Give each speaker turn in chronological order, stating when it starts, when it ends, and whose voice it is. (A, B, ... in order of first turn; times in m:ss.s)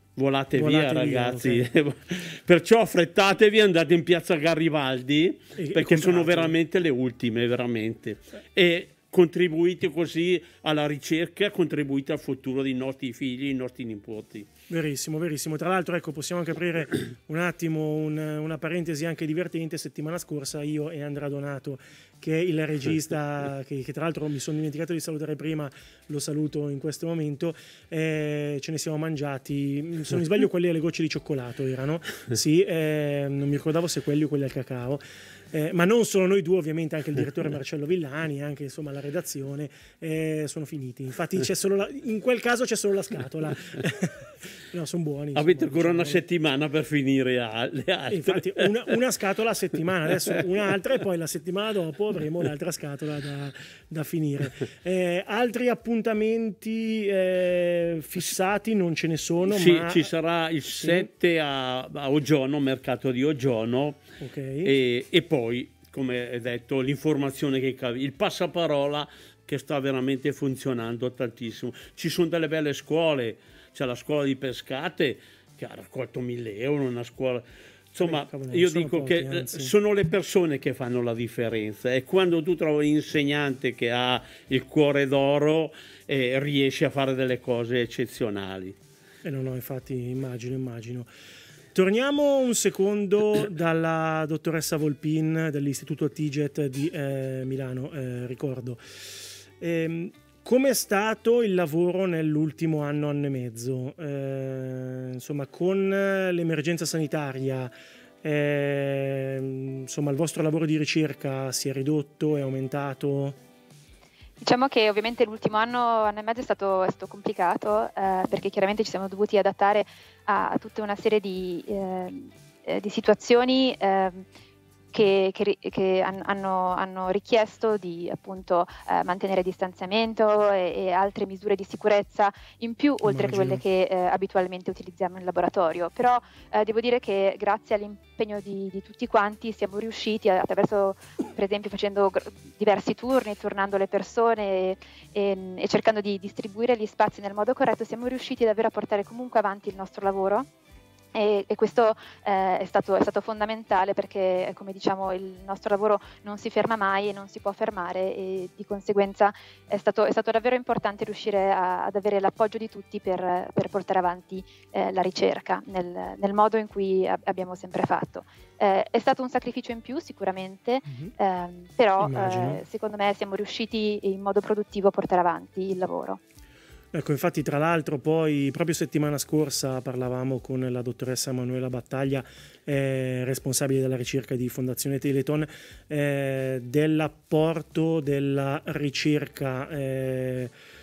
0:00.2-0:14.5 A
0:00.5-0:01.6 B
0:05.6-0:06.5 B
0:14.7-0:46.2 B
0:45.3-0:48.9 A
0:48.1-1:00.1 B
0:59.4-1:04.0 A
1:00.8-1:01.1 B
1:04.2-1:04.7 B
1:04.6-1:28.8 A
1:18.0-1:19.7 B
1:29.2-1:31.1 B
1:31.7-1:38.8 B
1:39.6-1:53.4 B
1:54.4-2:04.2 C
2:04.9-2:30.5 C
2:13.0-2:13.6 B
2:31.1-2:56.2 C
2:50.9-2:51.1 B
2:52.0-2:52.6 B
2:56.9-3:10.5 B